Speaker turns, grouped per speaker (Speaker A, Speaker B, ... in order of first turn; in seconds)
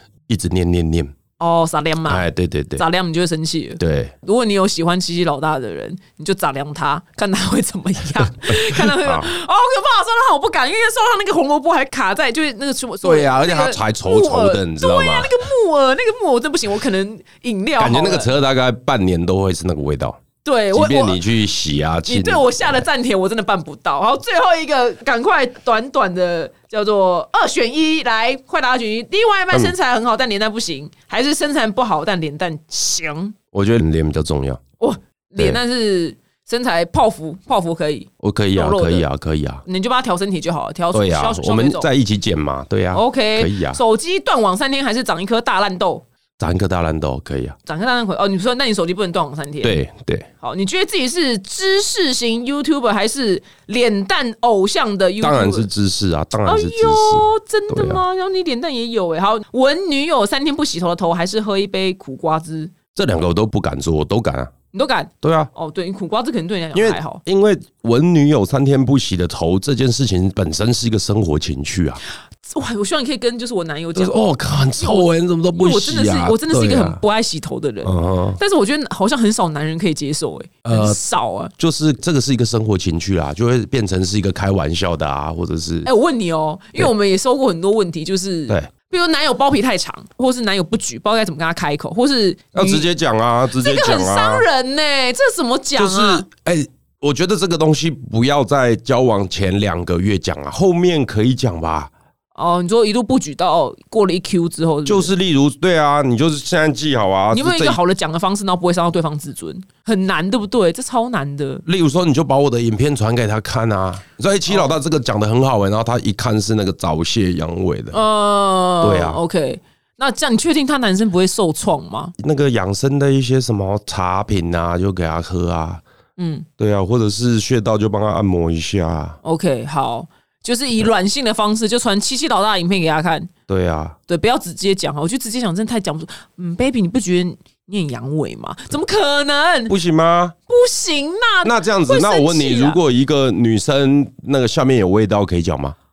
Speaker A: 0.3-1.1, 2.1-2.8, 3.8-4.1, 8.5-9.3, 13.0-15.3, 17.8-20.2, 20.7-22.8, 33.5-34.6, 38.2-39.6, 40.9-43.8, 46.4-47.6, 49.6-50.3, 55.2-58.0, 63.0-64.5, 65.2-65.5, 66.7-72.0, 74.0-77.0, 77.8-78.4, 80.7-81.0, 81.6-85.9, 92.5-94.5, 95.8-101.9, 104.9-107.8, 111.7-118.0, 118.8-119.2, 122.2-125.8, 126.6-129.2, 133.5-134.0, 139.7-140.3, 141.4-145.8
Speaker B: 1.4-18.3, 20.4-21.2, 22.1-33.4, 34.8-39.1, 39.6-41.9, 42.9-46.1, 47.7-49.8, 50.4-55.7, 56.5-62.7, 64.7-67.2, 72.4-74.2, 74.8-81.5, 85.8-92.9, 93.6-96.3, 102.3-105.1, 107.3-111.6, 114.5-114.8, 117.9-122.1, 126.2-126.5, 129.2-133.3, 134.1-139.8, 140.5-142.8